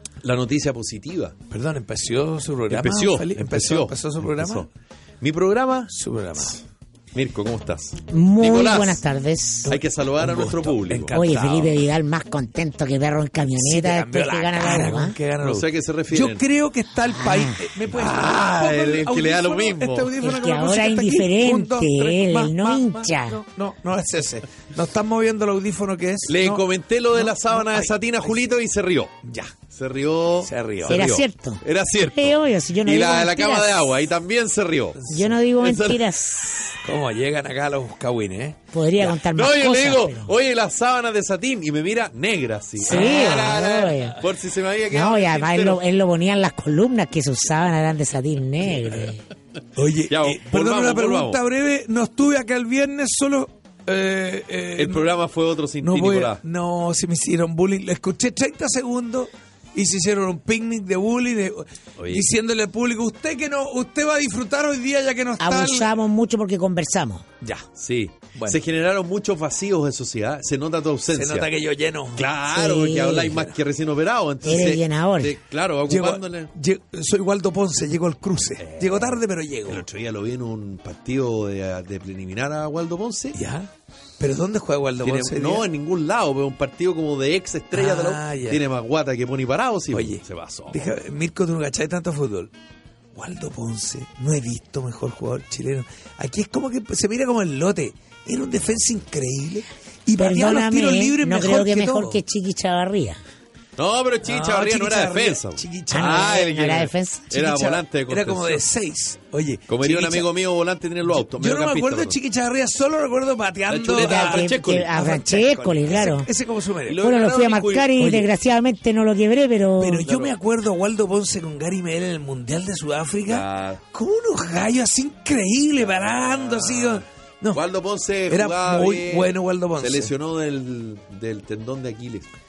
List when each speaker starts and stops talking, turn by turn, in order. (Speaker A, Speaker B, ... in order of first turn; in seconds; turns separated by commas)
Speaker A: 0.2-1.4, Speaker B: 1.5-4.7, Speaker A: 2.7-4.7, Speaker A: 5.2-6.6, Speaker B: 5.9-6.6, Speaker A: 7.1-9.0, Speaker C: 8.1-9.7, Speaker B: 9.6-11.8, Speaker A: 9.7-11.3, Speaker C: 11.1-15.2, Speaker B: 13.6-28.4, Speaker A: 15.4-16.4, Speaker C: 17.1-17.7, Speaker A: 17.9-20.2, Speaker C: 20.2-23.4, Speaker A: 26.3-29.1, Speaker B: 29.2-29.6, Speaker A: 29.7-35.0, Speaker B: 30.4-31.1, Speaker C: 30.9-33.9, Speaker B: 35.0-35.3, Speaker C: 35.1-36.7, Speaker A: 35.6-36.1, Speaker B: 36.8-38.6, Speaker C: 38.7-40.3, Speaker A: 39.0-45.8, Speaker B: 42.8-43.5, Speaker C: 42.8-44.2, Speaker C: 44.9-49.2, Speaker B: 49.8-55.1, Speaker A: 50.1-51.4, Speaker A: 54.8-56.4, Speaker B: 55.8-66.0, Speaker A: 62.0-62.3, Speaker C: 65.4-67.2, Speaker B: 67.4-67.7, Speaker A: 67.8-71.5, Speaker B: 68.3-68.6, Speaker B: 71.1-72.3, Speaker A: 72.2-76.5, Speaker C: 72.5-73.5, Speaker C: 74.5-75.4, Speaker B: 75.9-79.9, Speaker A: 78.6-83.4, Speaker B: 83.3-85.7, Speaker A: 85.0-90.9, Speaker B: 87.7-88.6, Speaker B: 89.9-92.5, Speaker B: 93.2-102.2, Speaker C: 100.2-103.2, Speaker A: 103.8-108.6, Speaker B: 104.2-106.4, Speaker C: 105.9-107.4, Speaker B: 107.3-110.3, Speaker A: 109.7-112.2, Speaker B: 111.1-117.0, Speaker A: 113.7-115.0, Speaker C: 114.0-116.3, Speaker A: 116.9-118.1, Speaker C: 117.0-120.1, Speaker B: 118.0-118.3, Speaker B: 119.8-127.6, Speaker A: 120.0-120.3, Speaker A: 123.2-123.8, Speaker A: 125.8-132.3, Speaker B: 128.3-130.1